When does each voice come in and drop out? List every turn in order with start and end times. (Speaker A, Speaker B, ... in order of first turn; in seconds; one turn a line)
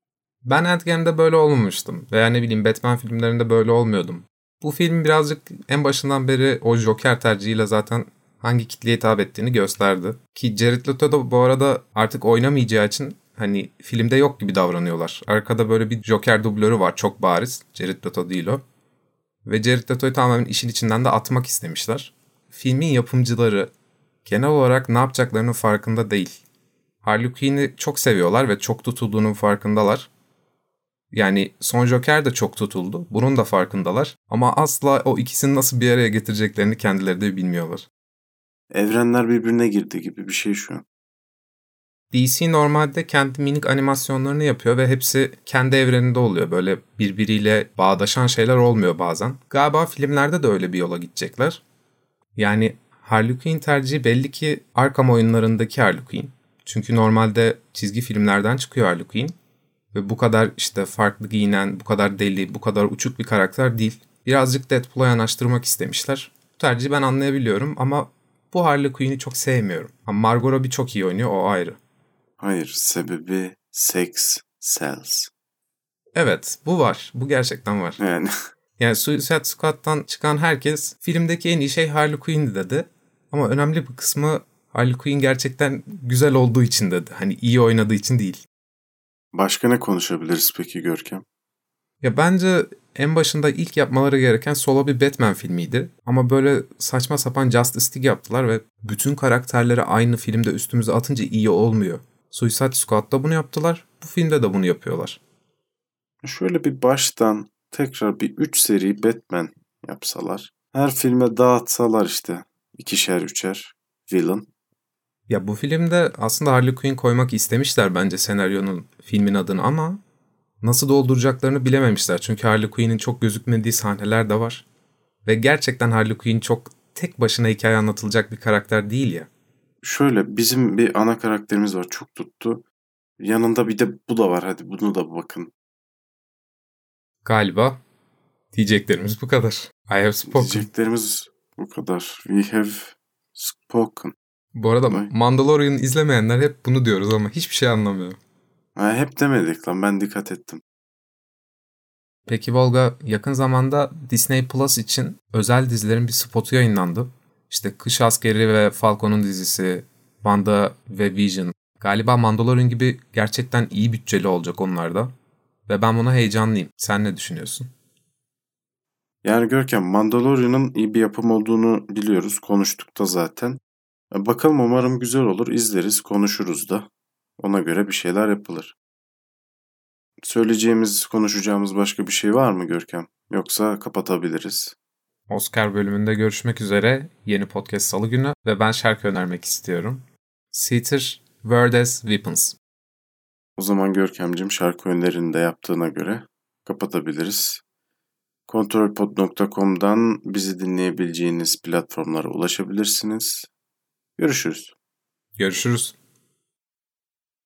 Speaker A: 0.4-18.6
Speaker A: 19.5-23.7
Speaker A: 24.2-26.4
Speaker A: 27.0-30.1
Speaker A: 31.1-37.9
Speaker B: 38.7-40.9
Speaker A: 42.1-51.6
Speaker A: 52.4-59.4
Speaker A: 59.9-71.8
Speaker B: 72.4-75.3
Speaker A: 76.1-78.0
Speaker B: 78.0-78.3
Speaker A: 78.8-88.4
Speaker B: 89.3-91.2
Speaker A: 92.0-105.2
Speaker B: 106.2-114.5
Speaker A: 115.3-120.0
Speaker A: 120.6-124.7
Speaker A: 125.2-129.3
Speaker B: 129.8-132.7
Speaker B: 133.2-135.5
Speaker A: 137.2-137.8
Speaker A: 138.5-140.7
Speaker B: 140.3-144.2
Speaker A: 144.6-148.2
Speaker B: 148.8-150.6
Speaker A: 152.3-165.1
Speaker A: 165.7-167.7
Speaker B: 169.2-178.8
Speaker B: 180.2-184.8
Speaker A: 185.3-192.6
Speaker B: 193.6-197.6
Speaker B: 198.5-203.5
Speaker B: 204.2-204.7
Speaker A: 205.4-206.0